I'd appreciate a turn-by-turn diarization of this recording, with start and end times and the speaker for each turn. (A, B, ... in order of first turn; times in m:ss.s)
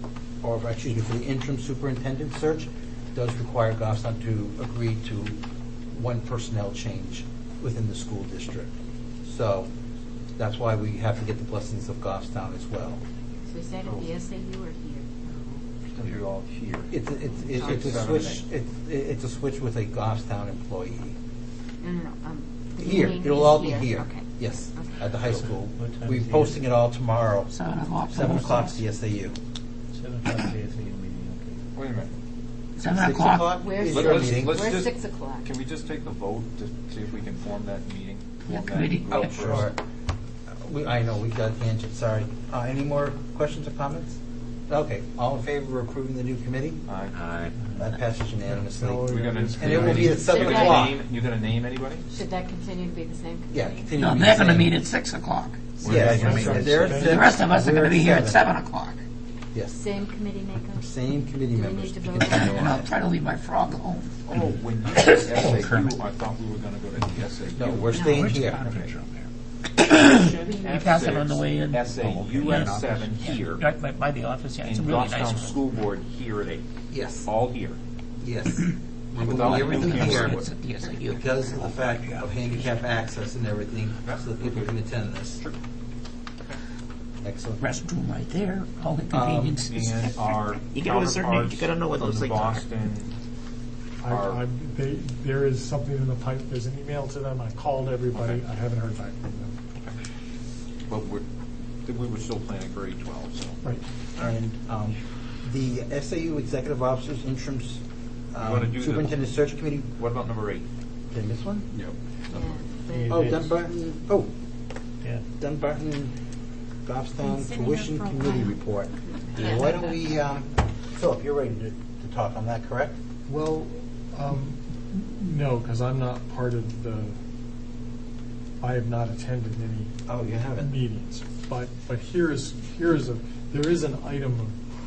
0:00.4-0:05.4 A
0:05.9-0:08.7 A
0:09.2-0:09.7 A
0:10.4-0:13.0 A
0:13.5-0:15.6 B
0:15.9-0:18.4 C
0:16.9-0:21.2 A
0:17.6-0:18.1 B
0:21.8-0:25.1 B
0:22.8-0:27.5 A
0:25.3-0:26.6 D
0:27.5-0:28.8 E
0:28.1-0:29.4 A
0:29.9-0:31.6 D
0:31.8-0:32.1 C
0:32.8-0:33.5 E
0:32.9-0:34.8 A
0:33.6-0:35.5 B
0:33.9-0:39.7 C
0:38.5-0:39.5 E
0:39.1-0:39.8 A
0:40.5-0:46.8 A
0:46.9-0:47.2 C
0:47.7-0:51.0 A
0:48.5-0:50.2 F
0:49.0-0:52.0 C
0:50.2-0:50.9 B
0:52.1-0:53.9 B
0:53.5-0:54.7 A
0:54.0-0:55.9 E
0:55.8-0:56.9 C
0:55.8-0:58.4 A
0:55.9-0:57.2 F
0:56.6-0:59.0 E
0:59.5-0:59.8 A
0:59.8-1:00.9 B
1:00.7-1:02.9 A
1:01.5-1:02.6 B
1:02.2-1:04.2 E
1:04.3-1:08.9 C
1:04.9-1:05.8 E
1:07.6-1:08.7 A
1:07.9-1:08.4 B
1:08.1-1:09.1 E
1:09.8-1:15.6 E
1:10.0-1:13.6 C
1:14.6-1:16.7 C
1:16.9-1:17.3 A
1:17.2-1:17.8 C
1:18.2-1:20.4 A
1:19.2-1:22.6 E
1:19.2-1:20.5 C
1:21.1-1:25.4 A
1:24.0-1:24.7 C
1:27.2-1:27.6 A
1:27.6-1:32.6 E
1:29.1-1:29.6 A
1:29.7-1:33.1 C
1:34.0-1:39.5 F
1:34.0-1:34.4 C
1:38.1-1:38.4 C
1:40.9-1:41.2 C
1:41.9-1:43.6 C
1:44.2-1:49.9 A
1:48.4-1:49.2 C
1:49.9-1:50.7 C
1:51.1-1:51.9 A
1:51.8-1:52.6 C
1:52.3-1:53.4 B
1:53.0-1:53.5 F
1:53.1-1:54.3 A
1:55.4-1:56.1 A
1:56.8-2:03.0 A
1:57.3-1:58.4 E
1:59.0-2:00.1 B
2:03.3-2:07.2 F
2:08.6-2:09.9 F
2:10.1-2:10.8 A
2:10.5-2:14.6 F